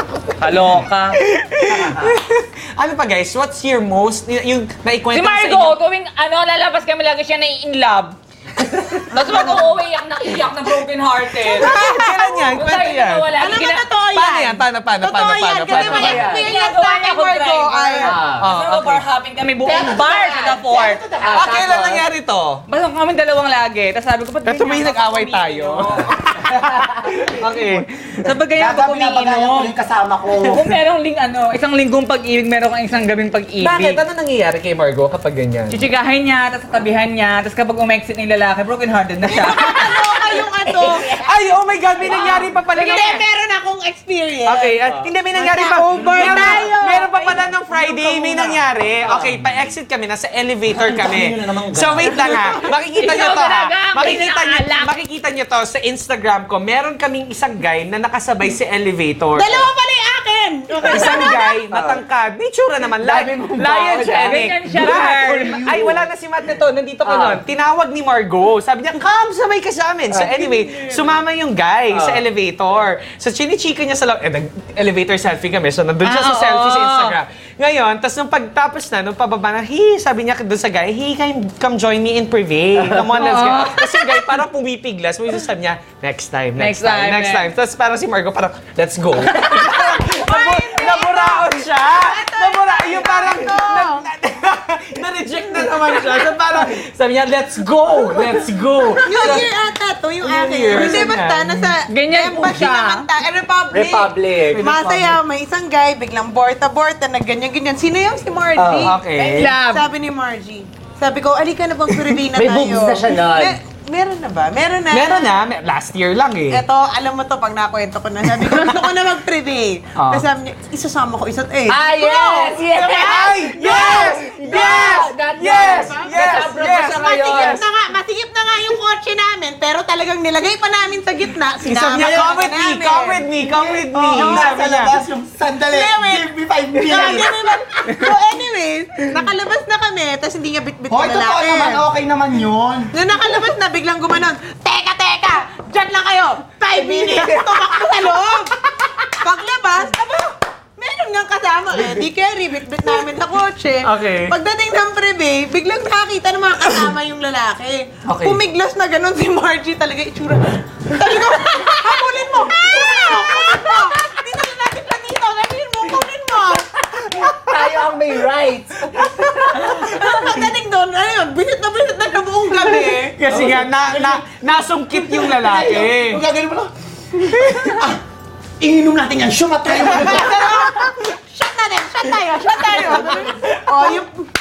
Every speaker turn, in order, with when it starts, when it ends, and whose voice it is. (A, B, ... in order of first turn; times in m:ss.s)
0:00.4-0:01.2 A
0:01.3-0:05.8 B
0:01.7-0:02.2 C
0:05.1-0:12.0 A
0:11.4-0:13.4 B
0:11.5-0:12.5 D
0:12.6-0:13.8 A
0:13.4-0:18.1 D
0:14.1-0:16.3 B
0:15.7-0:16.5 E
0:16.0-0:21.0 A
0:18.0-0:18.5 E
0:18.4-0:19.0 B
0:19.6-0:21.6 C
0:21.2-0:22.0 E
0:21.3-0:22.6 B
0:22.7-0:26.1 A
0:24.4-0:28.2 B
0:28.2-0:29.7 A
0:28.6-0:30.7 C
0:30.4-0:34.0 A
0:33.6-0:35.8 B
0:35.7-0:40.1 A
0:39.3-0:41.2 D
0:41.2-0:43.2 B
0:42.0-0:48.6 D
0:42.8-0:43.1 A
0:44.4-0:59.7 B
0:49.1-0:49.6 C
0:50.8-0:52.4 C
0:52.7-0:54.9 A
0:59.4-1:01.7 D
1:00.8-1:39.5 B
1:00.9-1:02.0 E
1:03.0-1:05.9 E
1:03.9-1:05.6 A
1:07.0-1:07.4 E
1:10.1-1:10.8 E
1:11.9-1:12.2 E
1:16.0-1:17.2 A
1:23.0-1:24.2 A
1:26.6-1:27.5 A
1:29.4-1:29.8 A
1:30.0-1:34.0 D
1:39.0-1:55.4 D
1:40.2-1:41.7 B
1:41.9-1:43.1 A
1:43.7-1:44.7 E
1:44.5-1:45.2 B
1:48.6-1:48.9 E
1:48.8-1:49.6 B
1:49.4-1:49.8 A
1:52.3-1:53.6 E
1:54.9-1:56.6 B
1:56.5-2:13.3 D
2:00.0-2:00.3 B
2:01.7-2:07.6 E
2:02.7-2:07.6 B
2:11.6-2:14.9 B
2:12.0-2:12.3 C
2:13.9-2:17.5 C
2:14.1-2:14.6 D
2:15.6-2:21.8 D
2:20.9-2:22.9 C
2:22.9-2:47.1 D
2:26.9-2:27.3 B
2:33.8-2:34.3 B
2:38.1-2:38.4 B
2:47.2-2:49.2 E
2:49.0-2:53.2 D
2:53.2-2:56.2 B
2:55.4-2:56.7 C
2:57.4-2:58.0 C
2:57.4-2:57.9 B
2:58.6-3:00.5 C
2:59.8-3:04.2 D
3:00.0-3:00.3 B
3:02.6-3:04.0 B